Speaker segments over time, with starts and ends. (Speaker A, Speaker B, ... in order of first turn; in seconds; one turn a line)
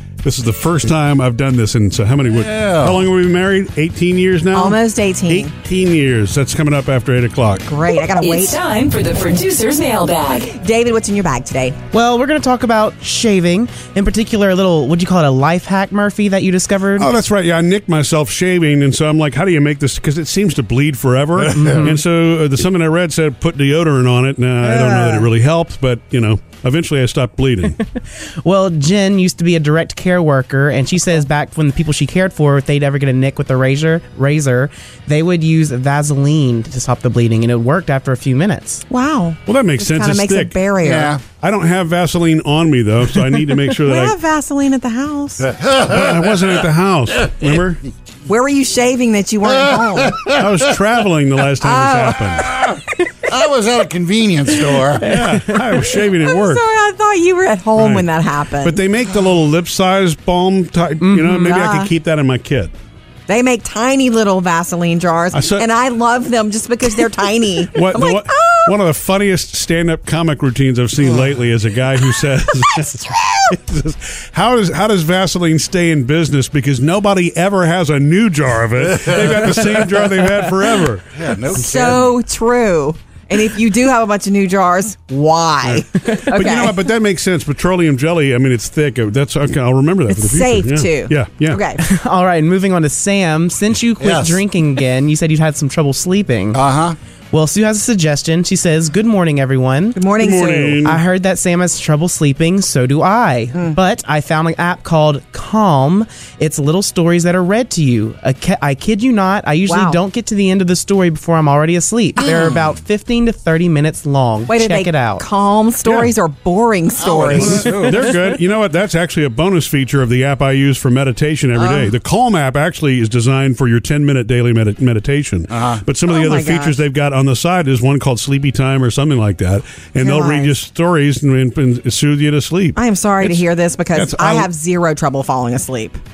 Speaker A: 0.2-7.6
Speaker B: 2.3-3.1
Speaker C: 4.5-5.5
Speaker C: 7.6-8.6
Speaker D: 8.1-10.5
Speaker C: 10.4-11.8
Speaker E: 11.9-17.1
Speaker A: 17.0-27.8
Speaker B: 21.4-21.9
Speaker E: 21.5-22.0
Speaker E: 24.6-25.3
Speaker E: 28.4-38.8
Speaker C: 38.9-41.1
Speaker A: 39.5-40.6
Speaker B: 40.8-41.2
Speaker A: 41.4-44.2
Speaker C: 43.8-45.5
Speaker B: 45.4-46.5
Speaker A: 45.8-47.8
Speaker C: 48.3-50.3
Speaker B: 49.5-50.7
Speaker A: 50.3-52.6
Speaker C: 51.6-52.8
Speaker B: 52.5-55.0
Speaker E: 55.0-55.9
Speaker A: 55.0-56.6
Speaker C: 56.2-58.8
Speaker A: 57.8-58.1
Speaker A: 58.6-62.7
Speaker E: 61.0-61.5
Speaker C: 61.4-61.9
Speaker C: 63.3-68.7
Speaker A: 65.3-65.7
Speaker A: 67.7-81.1
Speaker B: 78.8-80.5
Speaker B: 81.1-82.1
Speaker C: 81.5-86.8
Speaker A: 85.6-91.6
Speaker C: 90.1-91.8
Speaker E: 91.8-96.6
Speaker B: 94.0-94.4
Speaker B: 96.5-97.0
Speaker E: 97.3-100.0
Speaker C: 99.9-100.8
Speaker A: 100.2-101.0
Speaker E: 100.8-115.2
Speaker C: 109.7-110.0
Speaker C: 114.5-117.8
Speaker A: 115.8-116.1
Speaker B: 117.0-118.1
Speaker A: 117.3-133.4
Speaker C: 121.6-121.9
Speaker B: 125.5-125.8
Speaker C: 126.1-126.8
Speaker C: 130.0-130.5
Speaker C: 132.7-136.0
Speaker A: 133.9-134.5